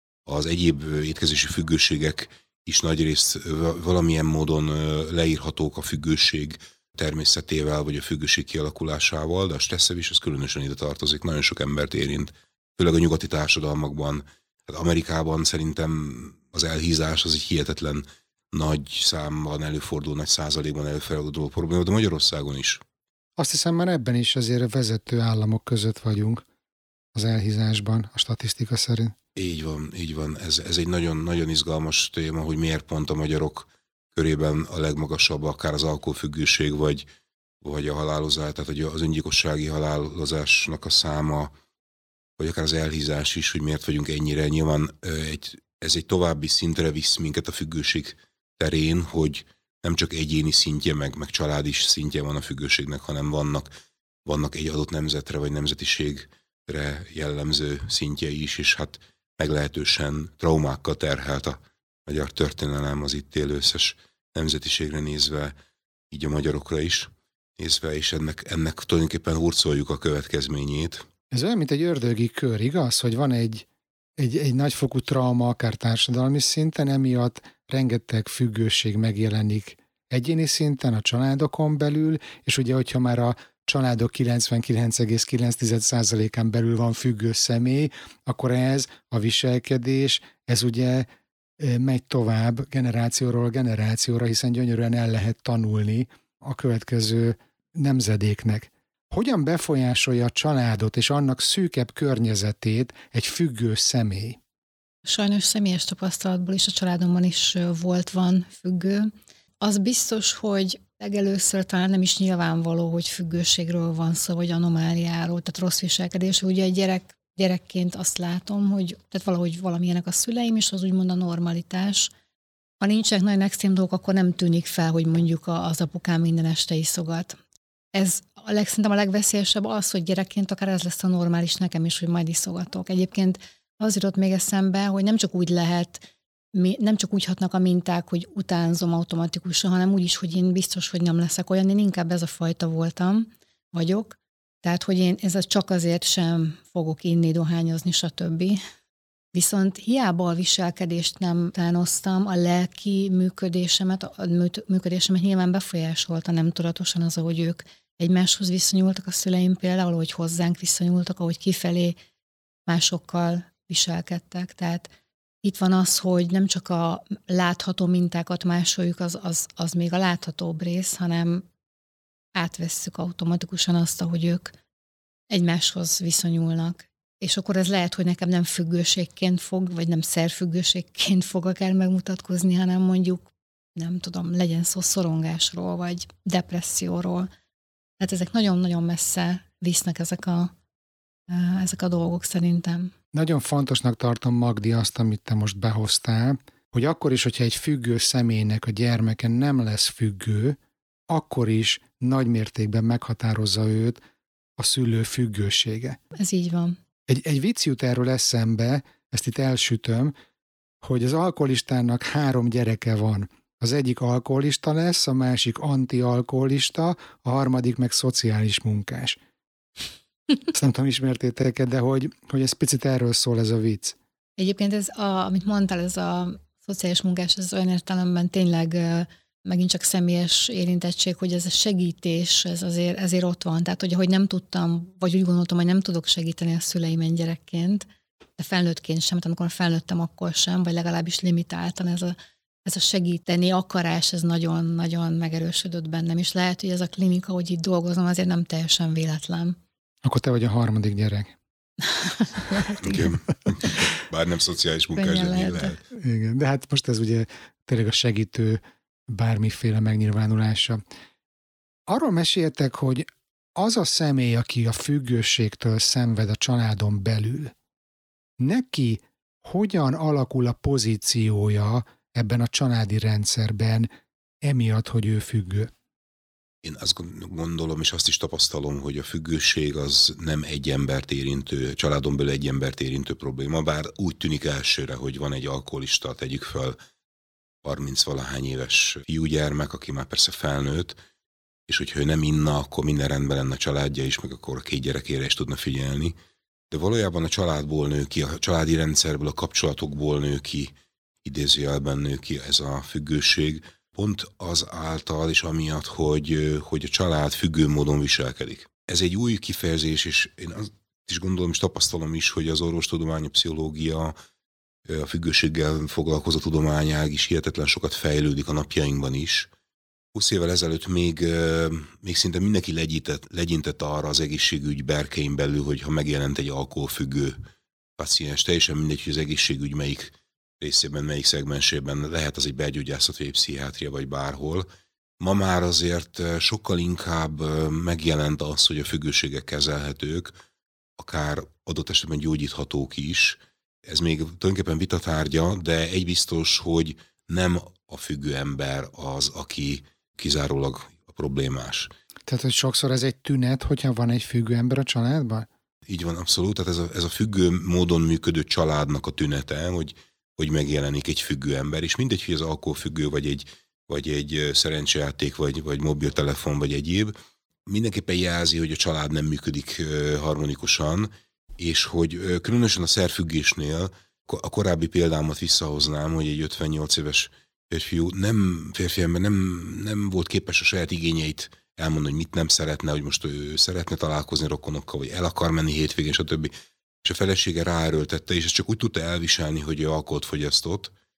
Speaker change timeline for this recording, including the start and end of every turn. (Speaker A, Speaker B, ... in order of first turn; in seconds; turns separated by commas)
Speaker A: 0.2-22.8, Speaker B: 23.4-26.4, Speaker B: 27.1-29.1, Speaker A: 29.3-37.1, Speaker A: 37.6-41.5, Speaker A: 42.4-53.7, Speaker A: 54.2-65.5, Speaker A: 66.1-71.1, Speaker B: 71.3-73.7, Speaker B: 74.2-104.4, Speaker C: 105.0-122.1, Speaker C: 122.8-127.4, Speaker C: 127.9-148.6, Speaker C: 149.3-162.0, Speaker C: 162.7-164.9, Speaker C: 165.4-171.4, Speaker C: 172.3-174.5, Speaker C: 175.3-187.3, Speaker C: 188.0-190.5, Speaker C: 191.3-192.9, Speaker B: 193.1-204.0, Speaker B: 204.6-206.0, Speaker C: 206.1-206.8, Speaker B: 207.1-210.1, Speaker B: 210.8-219.2, Speaker B: 220.5-224.0, Speaker C: 224.4-249.6, Speaker B: 250.0-251.3, Speaker C: 251.9-253.0, Speaker A: 252.8-255.8, Speaker C: 254.9-255.8, Speaker B: 255.9-260.8, Speaker B: 261.9-267.5, Speaker B: 268.4-273.9, Speaker B: 274.4-275.7, Speaker A: 276.6-286.8, Speaker A: 287.6-291.0, Speaker A: 291.7-296.1, Speaker A: 296.7-300.7, Speaker A: 301.2-314.1, Speaker A: 314.9-319.5, Speaker A: 320.1-327.4, Speaker A: 328.0-334.7, Speaker A: 335.2-340.3, Speaker A: 341.0-351.9, Speaker B: 352.3-355.5, Speaker A: 355.9-367.1, Speaker A: 367.6-386.5, Speaker A: 387.0-390.9